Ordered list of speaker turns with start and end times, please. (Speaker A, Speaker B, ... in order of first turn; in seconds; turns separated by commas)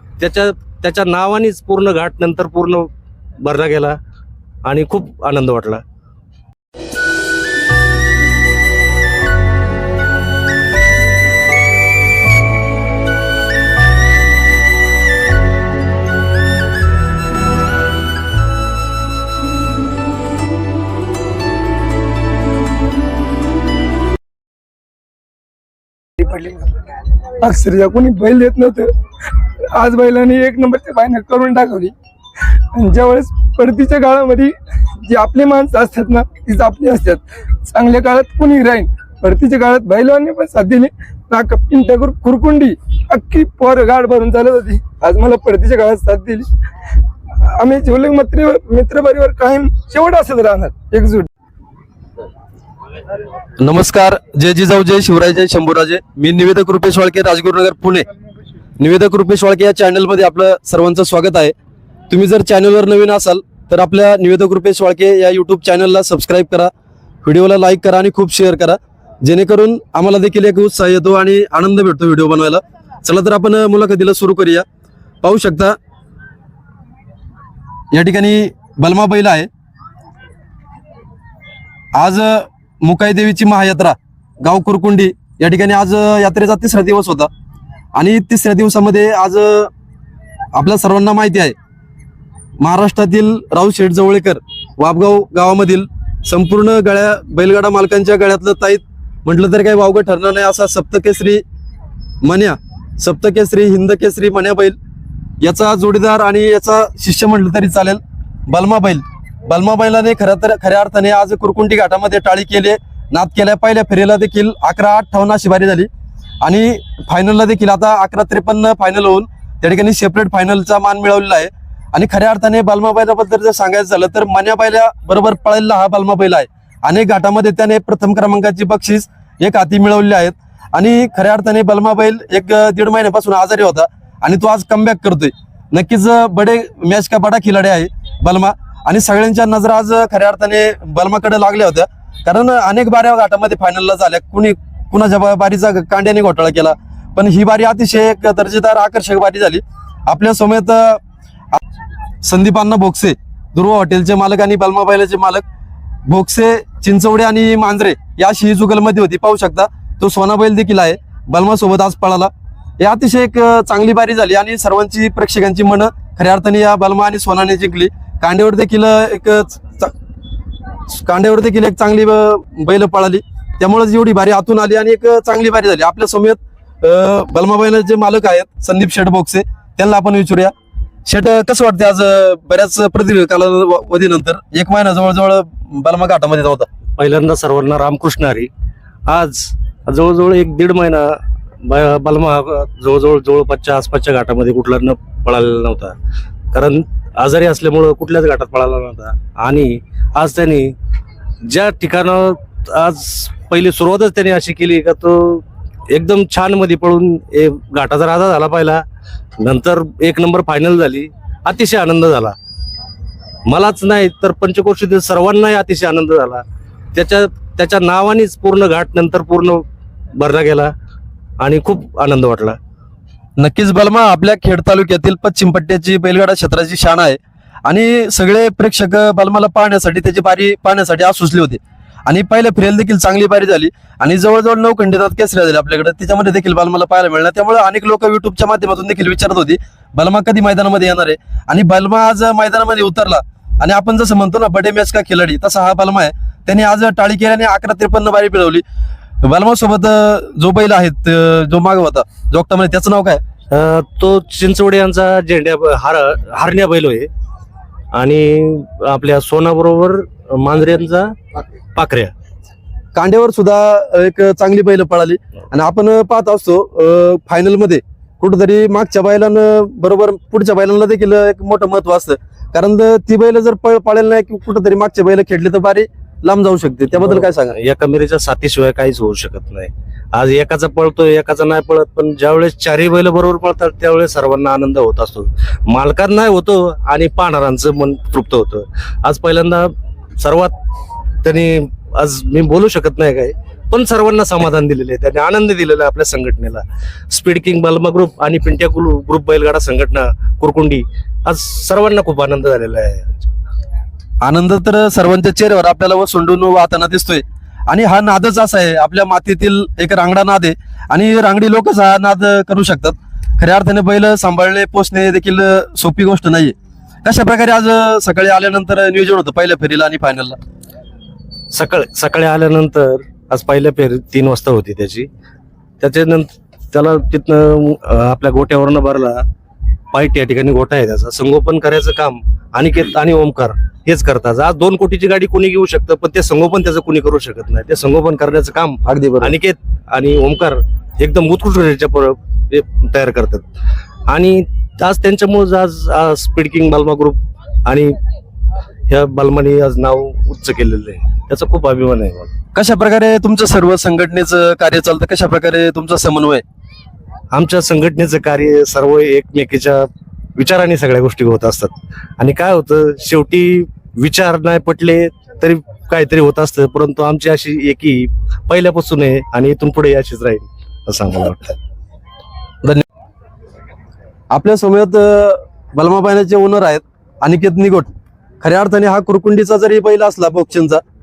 Speaker A: 0.2-2.9, Speaker A: 3.4-4.0, Speaker A: 4.6-5.8, Speaker B: 26.2-28.9, Speaker B: 29.6-31.9, Speaker B: 32.7-46.5, Speaker B: 47.4-51.3, Speaker C: 53.6-58.0, Speaker C: 58.8-61.5, Speaker C: 62.1-66.7, Speaker C: 67.2-74.6, Speaker C: 75.2-75.7, Speaker C: 77.9-79.5, Speaker C: 81.9-87.3, Speaker C: 87.9-89.7, Speaker C: 90.5-91.5, Speaker C: 92.6-101.4, Speaker C: 102.2-104.8, Speaker C: 105.4-115.9, Speaker C: 116.4-151.0, Speaker C: 152.2-155.4, Speaker C: 156.1-169.9, Speaker C: 170.9-180.5, Speaker C: 181.1-186.7, Speaker A: 187.0-188.5, Speaker A: 189.1-195.9, Speaker A: 196.5-200.7, Speaker A: 201.4-208.8, Speaker A: 209.4-212.3, Speaker A: 213.5-216.4, Speaker A: 216.9-219.6, Speaker A: 220.2-220.7, Speaker A: 221.4-222.6, Speaker C: 223.4-248.6, Speaker C: 249.2-253.2, Speaker A: 253.5-257.1, Speaker A: 257.9-261.2, Speaker A: 261.7-262.1, Speaker C: 262.9-277.5, Speaker A: 277.0-290.5, Speaker A: 291.2-303.1, Speaker C: 304.2-320.4, Speaker A: 321.5-325.1, Speaker A: 325.8-329.2, Speaker A: 329.9-343.4, Speaker C: 338.9-339.3, Speaker A: 344.1-348.0, Speaker A: 348.9-352.3, Speaker C: 352.5-356.4, Speaker A: 357.3-371.6, Speaker C: 374.3-380.8